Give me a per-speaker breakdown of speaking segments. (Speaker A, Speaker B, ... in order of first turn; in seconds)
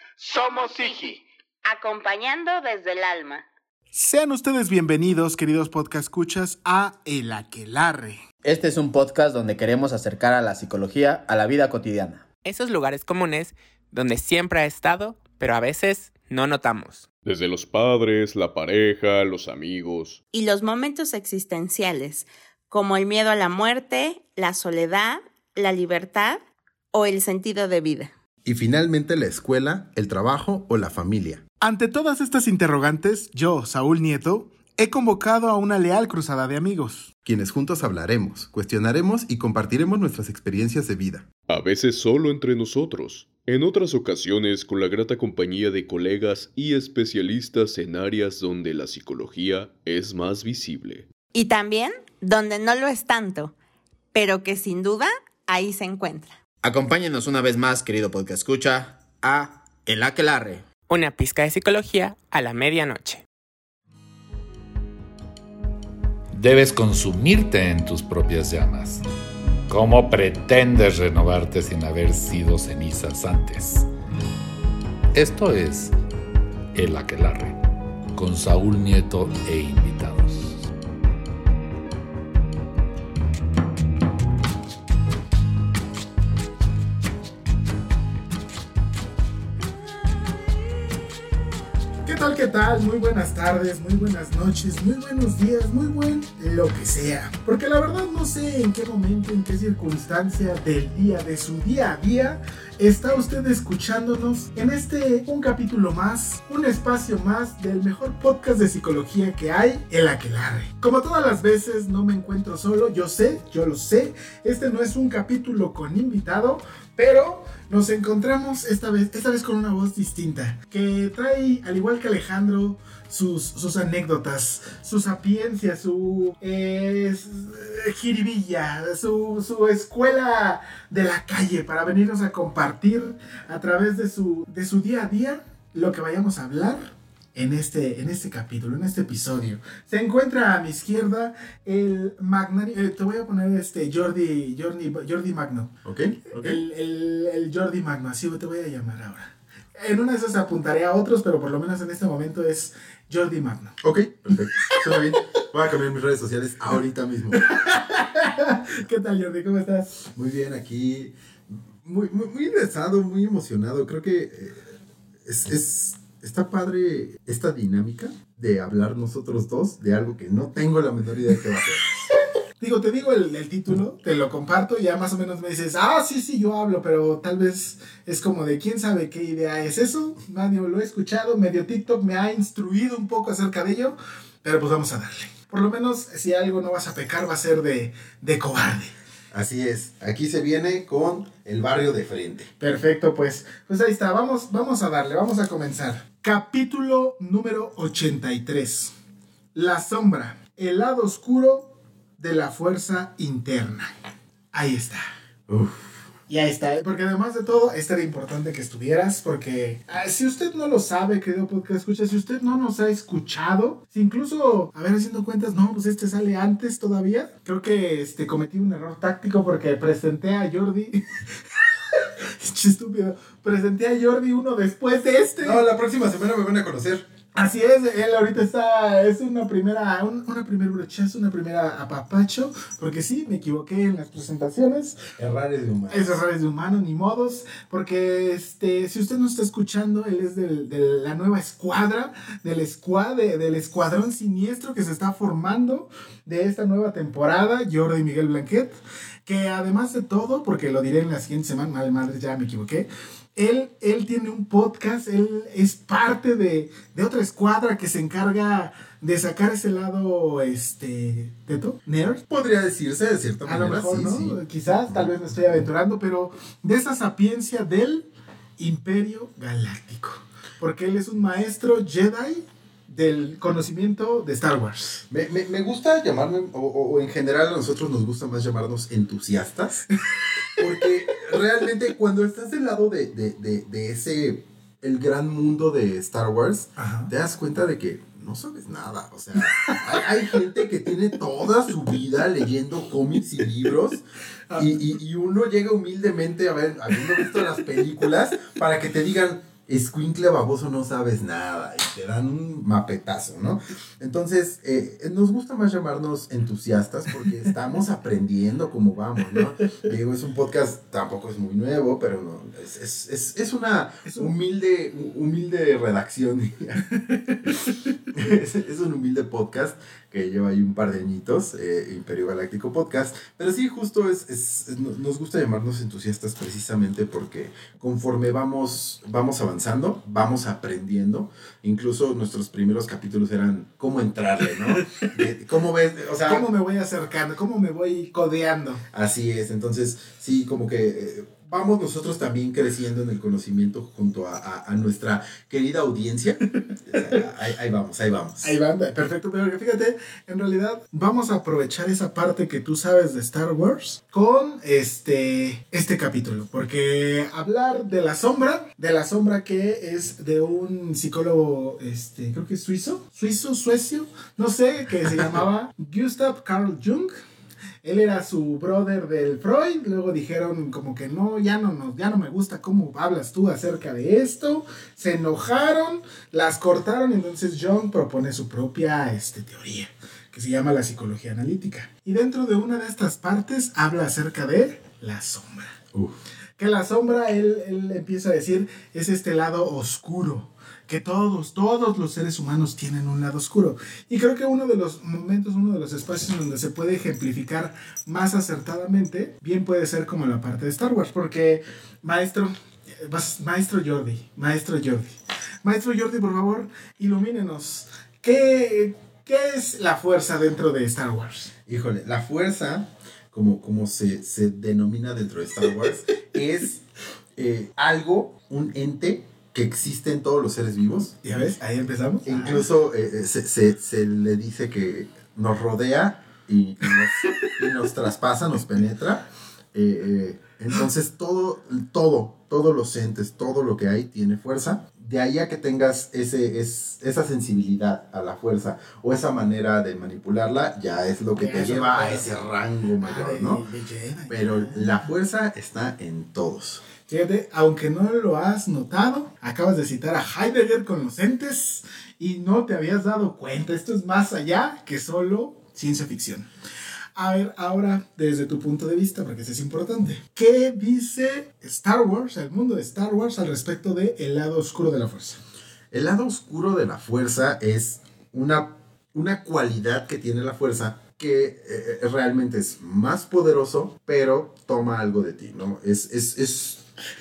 Speaker A: 0.2-1.2, 3.9-8.2, 31.6-37.1, 92.0-145.8, 146.3-153.8, 154.3-155.0, 157.4-160.0, 172.6-188.9, 192.6-198.9, 199.5-203.9, 204.5-205.0, 206.3-225.7, 227.3-235.0, 235.9-262.2, 263.4-268.1, 268.6-275.0, 286.8-287.1, 289.4-290.0, 294.5-294.8, 314.1-314.3, 316.9-317.8, 336.2-338.8, 348.4-367.1, 367.8-385.7, 386.6-411.5, 421.2-422.7, 427.2-427.5, 441.4-442.4, 443.0-445.0, 447.1-456.5, 457.2-465.4
Speaker B: 0.3-3.4, 20.3-26.4, 26.9-28.1, 51.3-53.5, 54.1-56.4
Speaker C: 8.4-12.2, 56.6-60.7
Speaker D: 12.4-17.1, 60.9-63.2
Speaker E: 17.2-20.2, 41.5-51.1
Speaker F: 28.4-31.4, 37.2-41.3, 145.8-146.6, 153.8-157.5, 160.1-161.2, 161.8-164.7, 165.2-171.8, 189.3-192.5, 205.5-206.0, 225.4-227.1, 235.2-236.2, 262.3-265.1, 275.1-279.9, 280.6-316.9, 318.1-336.5, 338.9-348.6, 411.7-416.8, 417.4-421.2, 422.2-443.6, 444.3-446.9, 465.9-476.8
Speaker G: 66.3-69.0, 69.7-73.9, 75.1-76.0, 76.7-77.6, 78.1-80.7